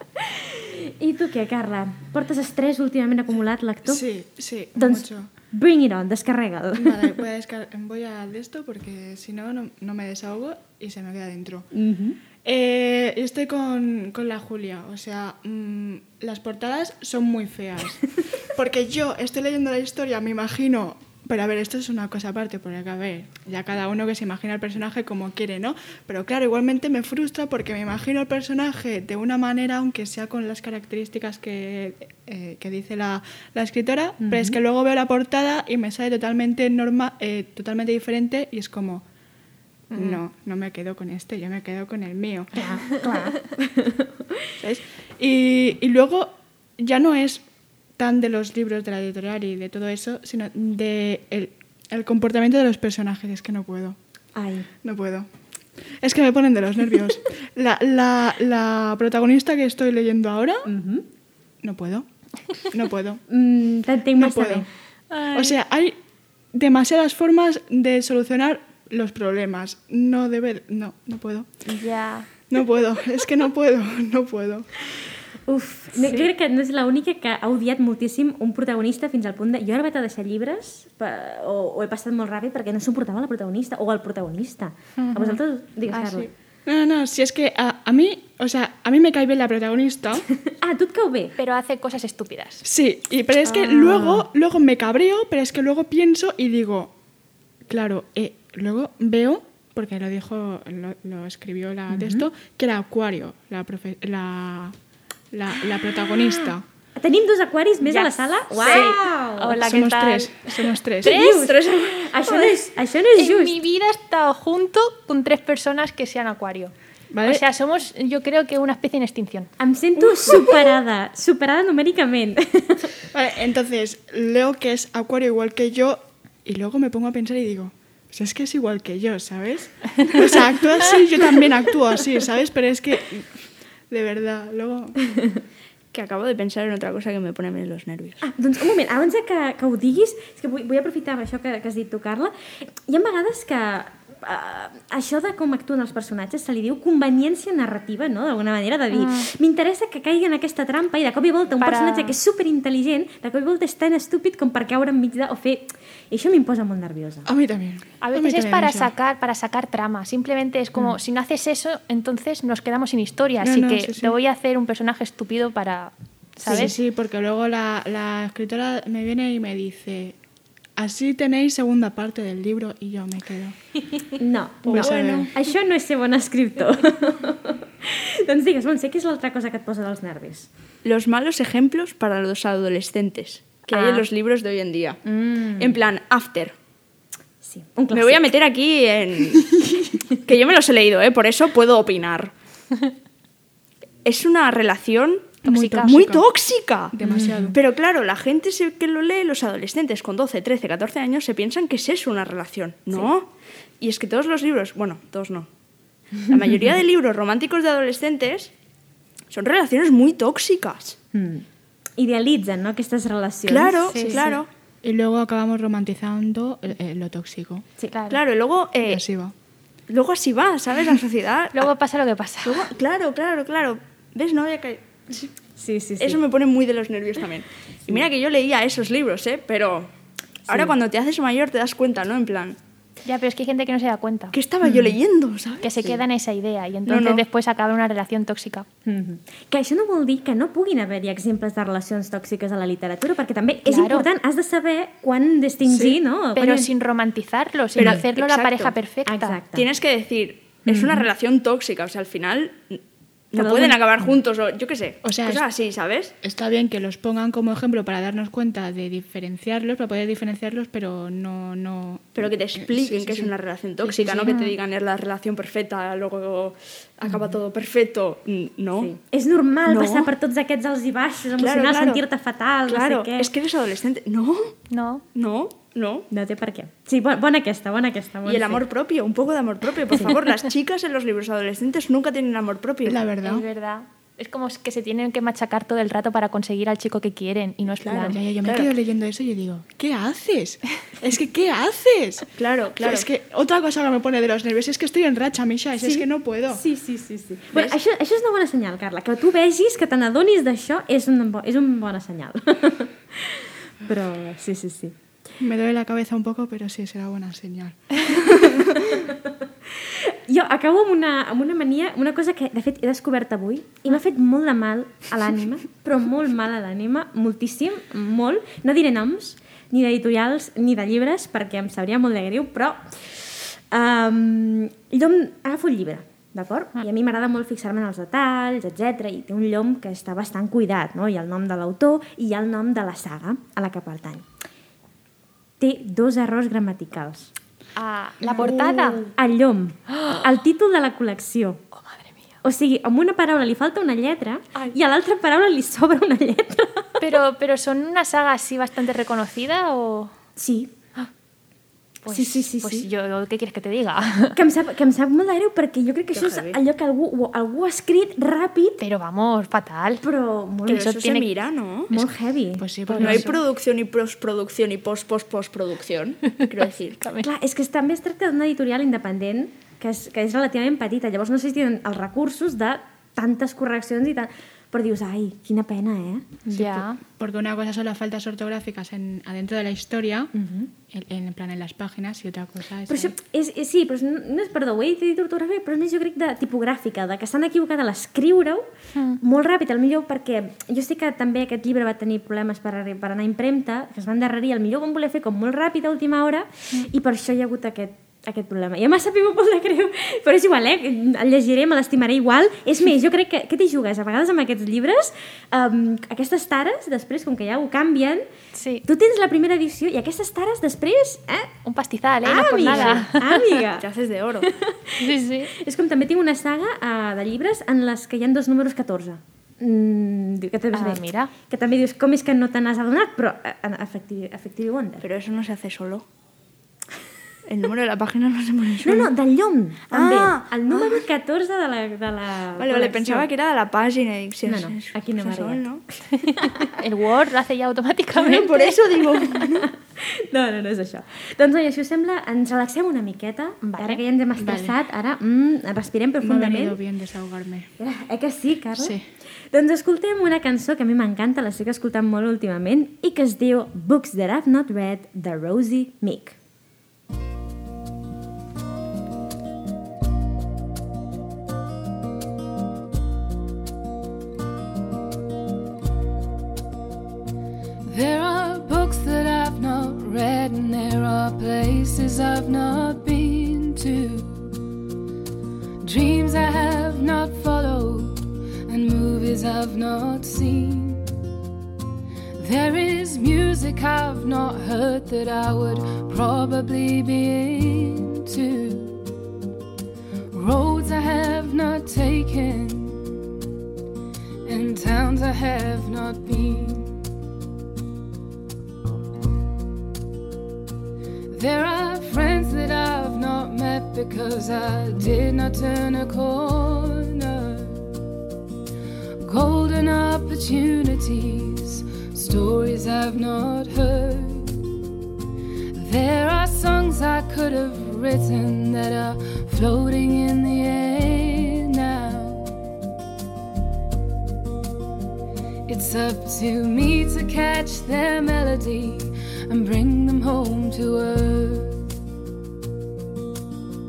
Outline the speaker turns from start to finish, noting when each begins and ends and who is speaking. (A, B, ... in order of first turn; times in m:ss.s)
0:00.2-0:04.0 A
0:03.9-0:05.3 B
0:04.8-0:07.2 A
0:06.8-0:11.7 B
0:11.7-0:12.2 A
0:12.4-0:39.0 B
0:34.2-0:34.6 A
0:39.9-0:42.8 B
0:42.6-0:44.5 A
0:44.6-0:47.4 B
0:48.0-0:54.0 B
0:54.4-0:54.7 A
0:54.8-0:55.3 B
0:56.0-1:00.7 B
1:00.7-1:01.1 A
1:01.6-1:02.1 B
1:02.6-1:03.2 B
1:03.3-1:04.7 A
1:04.2-1:04.7 B
1:05.1-1:05.6 C
1:05.3-1:06.0 B
1:06.5-1:11.5 B
1:11.7-1:12.3 C
1:12.5-1:14.8 B
1:15.5-1:26.3 A
1:25.1-1:25.4 C
1:25.9-1:26.2 D
1:26.7-1:30.3 B
1:30.4-1:31.4 A
1:31.4-1:32.6 C
1:32.6-1:36.9 B
1:33.4-1:34.3 A
1:37.7-1:44.8 B
1:41.9-1:42.3 A
1:45.3-1:46.6 B
1:46.2-1:49.7 A
1:47.8-1:51.5 C
1:48.6-1:48.9 D
1:49.6-1:51.2 B
1:51.0-1:53.6 A
1:51.2-1:52.6 D
1:53.2-1:56.7 C
1:57.1-1:57.4 B
1:57.2-1:59.5 C
1:59.6-2:02.9 A
2:03.1-2:13.4 B
2:13.9-2:15.0 B
2:15.9-2:18.2 D
2:18.2-2:37.3 A
2:28.9-2:29.3 C
2:31.6-2:32.2 C
2:37.3-2:38.9 B
2:38.0-2:46.8 C
2:43.4-2:44.2 B
2:46.4-2:50.2 B
2:50.8-2:53.6 B
2:54.2-3:00.5 A
2:54.7-2:55.3 B
2:54.7-2:55.3 D
3:00.8-3:05.0 D
3:05.1-3:05.8 A
3:05.6-3:06.6 D
3:07.4-3:08.3 A
3:07.9-3:12.3 D
3:14.0-3:16.9 D
3:15.4-3:16.2 B
3:15.4-3:16.0 C
3:16.9-3:17.6 B
3:17.0-3:17.6 A
3:17.5-3:23.3 D
3:23.8-3:25.5 D
3:26.2-3:28.5 D
3:29.3-3:31.0 D
3:31.1-3:34.4 A
3:33.5-3:34.5 D
3:33.9-3:34.3 C
3:34.8-3:37.7 B
3:37.9-3:38.2 C
3:38.1-3:39.0 D
3:38.8-3:39.3 B
3:39.9-3:41.7 D
3:41.5-3:42.7 C
3:42.4-3:44.8 D
3:45.6-3:46.2 A
3:46.0-3:49.9 D
3:50.5-3:52.6 D
3:50.5-3:50.8 A
3:53.0-3:54.4 C
3:54.3-3:56.0 D
3:54.6-3:55.0 A
3:55.6-3:58.7 C
3:56.9-3:57.2 D
3:58.8-4:06.7 A
4:03.7-4:04.1 C
4:06.4-4:09.4 C
4:07.8-4:08.7 D
4:09.1-4:09.7 A
4:09.5-4:12.8 D
4:10.7-4:11.1 A
4:13.3-4:16.2 D
4:13.4-4:13.8 A
4:15.0-4:15.4 B
4:16.2-4:23.3 B
4:22.2-4:28.9 D
4:23.8-4:24.4 B
4:28.8-4:33.3 A
4:29.7-4:30.1 D
4:31.4-4:32.0 D
4:32.7-4:34.6 D
4:34.7-4:35.0 C
4:35.2-4:36.1 D
4:36.1-4:38.6 A
4:38.2-4:43.0 D
4:39.9-4:40.2 A
4:42.9-4:43.5 B
4:43.2-4:48.2 C
4:47.8-4:48.7 D
4:48.1-4:56.6 B
4:52.4-4:53.1 D
4:55.8-5:05.0 A
5:05.4-5:09.0 B
5:08.8-5:34.3 A
5:35.6-5:37.3 A
5:37.8-5:39.0 C
5:38.3-5:38.6 B
5:38.3-5:41.6 A
5:41.8-5:42.2 C
5:42.4-5:47.0 A
5:47.0-5:50.1 C
5:50.4-5:50.7 A
5:52.0-5:54.4 C
5:52.1-5:52.9 A
5:54.3-5:58.8 A
5:56.1-5:56.6 D
5:58.8-6:00.0 C
6:00.0-6:01.3 A
6:00.7-6:01.3 C
6:00.7-6:02.0 D
6:01.9-6:03.2 A
6:02.6-6:03.3 B
6:02.9-6:03.4 C
6:02.9-6:07.0 D
6:07.0-6:07.3 C
6:07.2-6:16.8 A
6:16.5-6:17.0 C
6:17.1-6:20.3 B
6:20.3-6:20.7 A
6:20.9-6:23.1 B
6:22.9-6:28.7 A
6:29.0-6:29.2 C
6:29.2-6:48.2 A
6:48.5-6:48.8 C
6:48.8-6:51.5 A
6:51.6-6:53.4 C
6:52.2-6:53.9 A
6:52.4-6:53.1 D
6:53.6-6:54.5 D
6:54.4-7:05.0 A
6:55.0-6:55.5 C
7:00.7-7:01.3 C
7:05.0-7:06.1 D
7:07.5-7:09.1 D
7:08.8-7:13.3 A
7:09.9-7:11.0 D
7:12.6-7:15.8 D
7:14.4-7:16.7 A
7:16.2-7:18.9 C
7:18.2-7:19.7 D
7:19.2-7:26.8 A
7:23.6-7:24.0 C
7:24.4-7:24.7 B
7:26.2-7:27.7 B
7:27.8-7:29.0 A
7:28.8-7:29.0 B
7:29.5-7:36.4 A
7:47.8-7:54.5 E
7:55.8-8:01.1 E
8:02.4-8:09.0 E
8:10.3-8:13.2 E
8:14.4-8:17.0 E
8:21.3-8:27.9 E
8:29.2-8:34.6 E
8:35.7-8:42.5 E
8:45.7-8:51.9 E